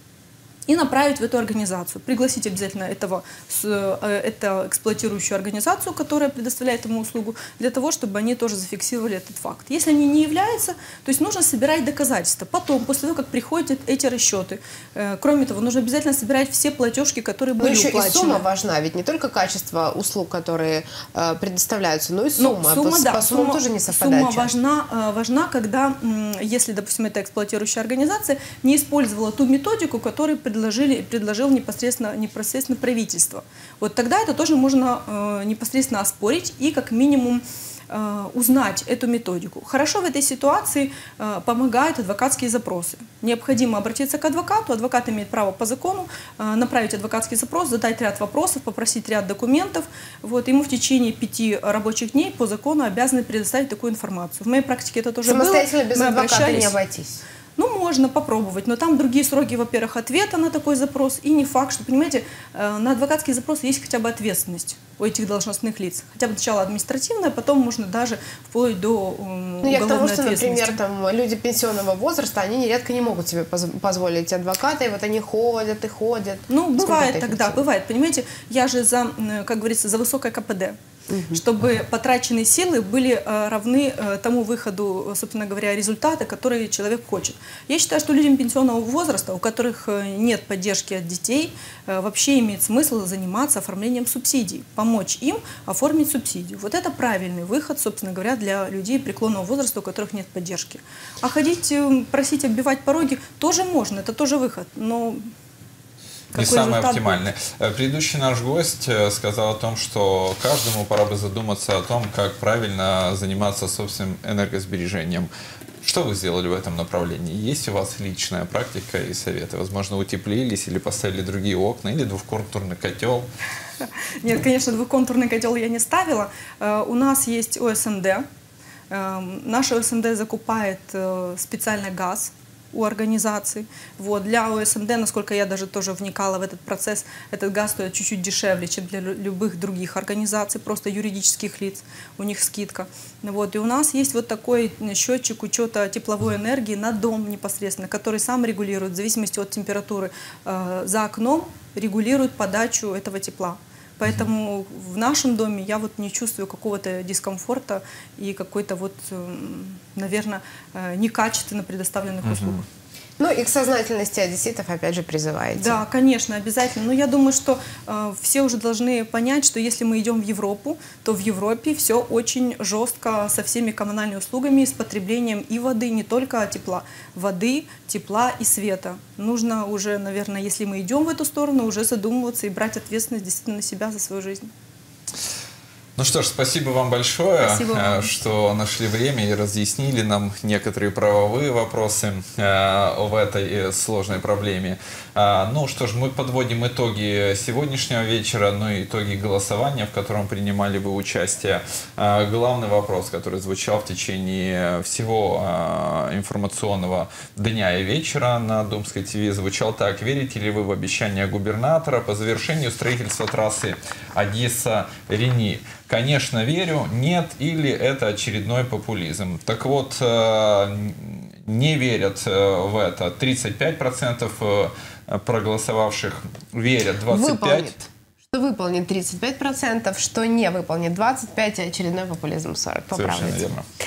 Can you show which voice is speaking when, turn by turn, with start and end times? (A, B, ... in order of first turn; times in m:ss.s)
0:00.7-0:18.4 A
0:17.6-0:24.5 B
0:22.4-0:56.8 A
0:55.2-0:57.2 B
0:57.6-1:10.8 A
1:09.6-1:17.6 B
1:16.5-1:20.8 A
1:21.1-1:21.4 B
1:21.3-1:45.3 A
1:46.3-1:47.2 A
1:46.3-1:55.3 C
1:55.8-2:03.3 C
2:03.8-2:08.2 A
2:08.9-2:42.6 A
2:42.2-2:42.6 C
2:43.2-2:45.8 B
2:45.6-3:04.5 A
3:06.0-3:47.7 C
3:07.4-3:08.1 A
3:47.1-3:53.4 B
3:52.9-3:53.6 C